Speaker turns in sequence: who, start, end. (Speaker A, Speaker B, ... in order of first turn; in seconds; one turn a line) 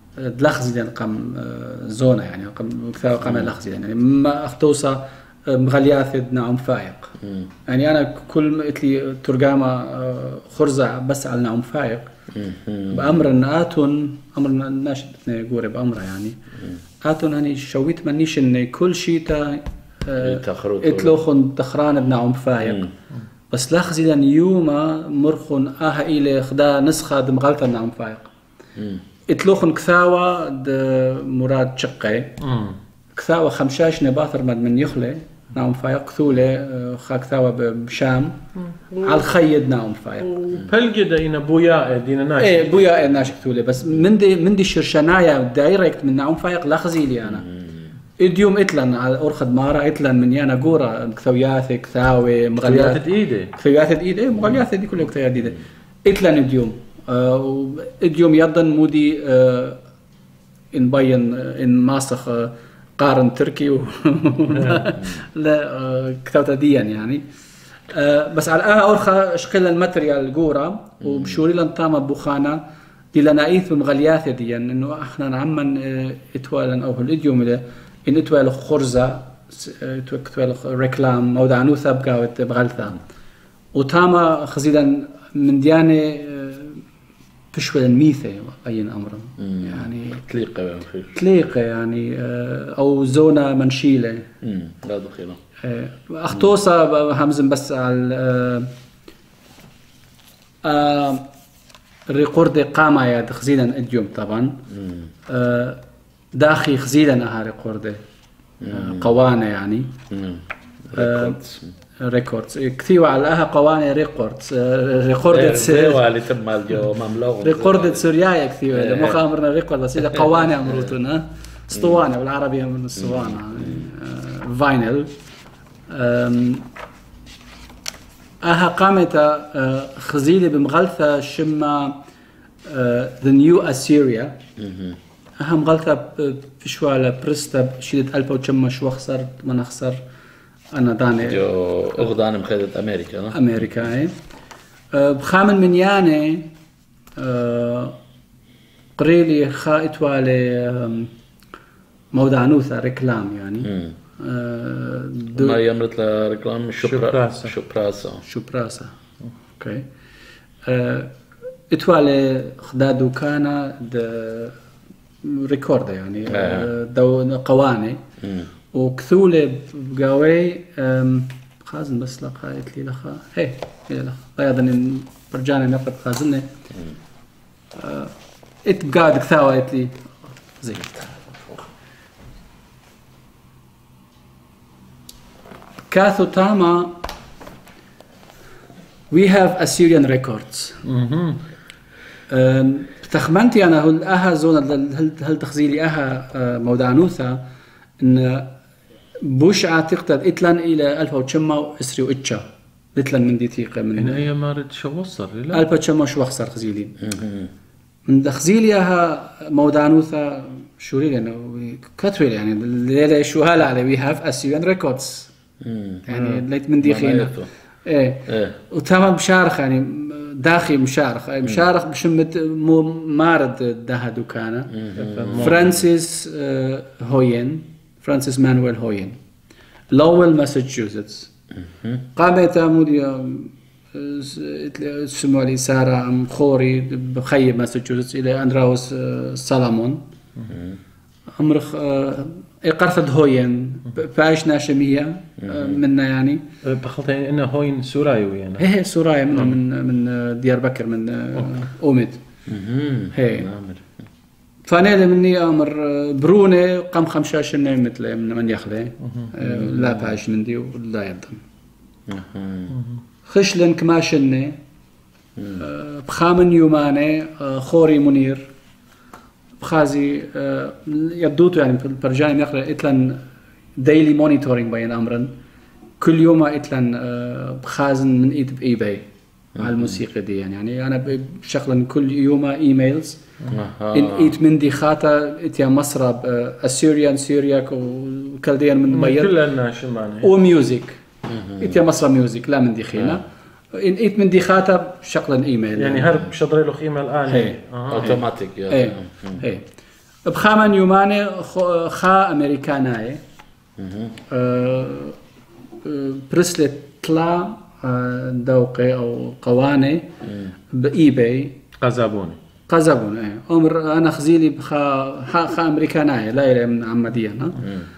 Speaker A: 0.2-7.2
Speaker B: 3.2-3.5
Speaker B: 7.2-7.5
Speaker A: 7.7-12.1
Speaker B: 12.3-13.2
Speaker A: 12.9-16.4
Speaker A: 17.0-22.9
Speaker B: 20.2-21.2
Speaker B: 22.6-22.9
Speaker A: 23.5-28.3
Speaker B: 28.8-29.0
Speaker A: 29.3-32.3
Speaker C: 32.4-32.8
Speaker A: 33.1-38.4
Speaker C: 38.7-39.3
Speaker A: 39.0-40.5
Speaker C: 40.2-42.8
Speaker A: 42.4-47.5
Speaker B: 47.5-47.8
Speaker A: 48.2-53.0
Speaker C: 52.6-53.5
Speaker A: 53.5-59.8
Speaker A: 60.7-67.2
Speaker B: 65.0-65.2
Speaker A: 67.9-72.6
Speaker B: 71.0-71.4
Speaker A: 73.1-83.0
Speaker A: 83.7-86.8
Speaker A: 87.5-90.2
Speaker B: 89.4-91.1
Speaker A: 91.1-94.3
Speaker B: 94.4-95.4
Speaker A: 95.6-98.7
Speaker A: 100.6-101.2
Speaker A: 102.1-104.6
Speaker B: 104.7-105.1
Speaker A: 105.3-105.8
Speaker A: 106.3-108.0
Speaker B: 108.6-109.1
Speaker A: 108.7-110.0
Speaker B: 110.1-111.7
Speaker A: 110.9-111.4
Speaker A: 112.0-116.0
Speaker B: 115.3-118.1
Speaker A: 117.4-125.1
Speaker B: 118.7-119.2
Speaker B: 120.1-120.8
Speaker B: 123.0-123.9
Speaker A: 125.9-126.7
Speaker A: 128.4-132.0
Speaker A: 132.7-134.3
Speaker B: 134.6-135.0
Speaker A: 135.4-140.0
Speaker A: 140.7-141.4
Speaker B: 141.2-143.4
Speaker A: 143.3-144.1
Speaker A: 144.9-146.5
Speaker A: 147.2-147.9
Speaker A: 148.9-151.1
Speaker A: 152.1-155.6
Speaker B: 153.6-153.9
Speaker B: 155.3-158.2
Speaker C: 156.8-157.5
Speaker A: 158.2-158.9
Speaker A: 159.5-159.8
Speaker A: 160.6-161.1
Speaker A: 161.7-164.6
Speaker A: 165.2-168.0
Speaker B: 166.3-166.7
Speaker B: 168.2-168.5
Speaker A: 168.7-176.5
Speaker A: 177.8-178.1
Speaker A: 178.6-181.6
Speaker A: 185.9-187.0
Speaker A: 189.1-190.8
Speaker C: 190.8-191.4
Speaker A: 192.3-197.4
Speaker A: 198.0-198.5
Speaker A: 199.2-204.2
Speaker C: 203.9-205.6
Speaker A: 205.5-207.0
Speaker B: 207.0-207.5
Speaker A: 208.1-215.3
Speaker B: 215.6-216.0
Speaker A: 216.1-224.8
Speaker B: 216.8-217.5
Speaker B: 218.3-218.5
Speaker B: 224.7-225.7
Speaker C: 224.9-225.7
Speaker A: 225.4-229.2
Speaker A: 229.9-231.3
Speaker B: 231.6-232.0
Speaker A: 232.1-240.0
Speaker B: 240.5-240.8
Speaker A: 241.4-246.4
Speaker B: 245.4-245.8
Speaker C: 246.6-248.6
Speaker A: 248.6-252.2
Speaker B: 252.5-253.9
Speaker A: 253.1-253.5
Speaker A: 254.7-261.4
Speaker C: 259.0-259.3
Speaker B: 259.4-260.1
Speaker B: 262.1-262.7
Speaker C: 262.7-263.0
Speaker A: 263.2-264.6
Speaker B: 265.4-265.6
Speaker A: 265.6-268.4
Speaker A: 269.6-273.2
Speaker A: 273.8-275.3
Speaker A: 276.0-283.2
Speaker B: 279.6-280.0
Speaker B: 283.5-284.3
Speaker A: 283.9-289.4
Speaker C: 288.9-290.3
Speaker A: 290.2-291.0
Speaker B: 291.2-291.8
Speaker A: 291.6-293.2
Speaker A: 293.7-296.2
Speaker C: 295.8-298.1
Speaker A: 297.3-299.6
Speaker B: 297.9-299.4
Speaker A: 300.2-303.2
Speaker B: 303.8-304.1
Speaker A: 304.3-305.2
Speaker A: 305.8-310.1
Speaker B: 310.2-310.5
Speaker A: 310.7-311.6
Speaker C: 311.8-312.4
Speaker A: 312.7-317.7
Speaker B: 317.6-317.9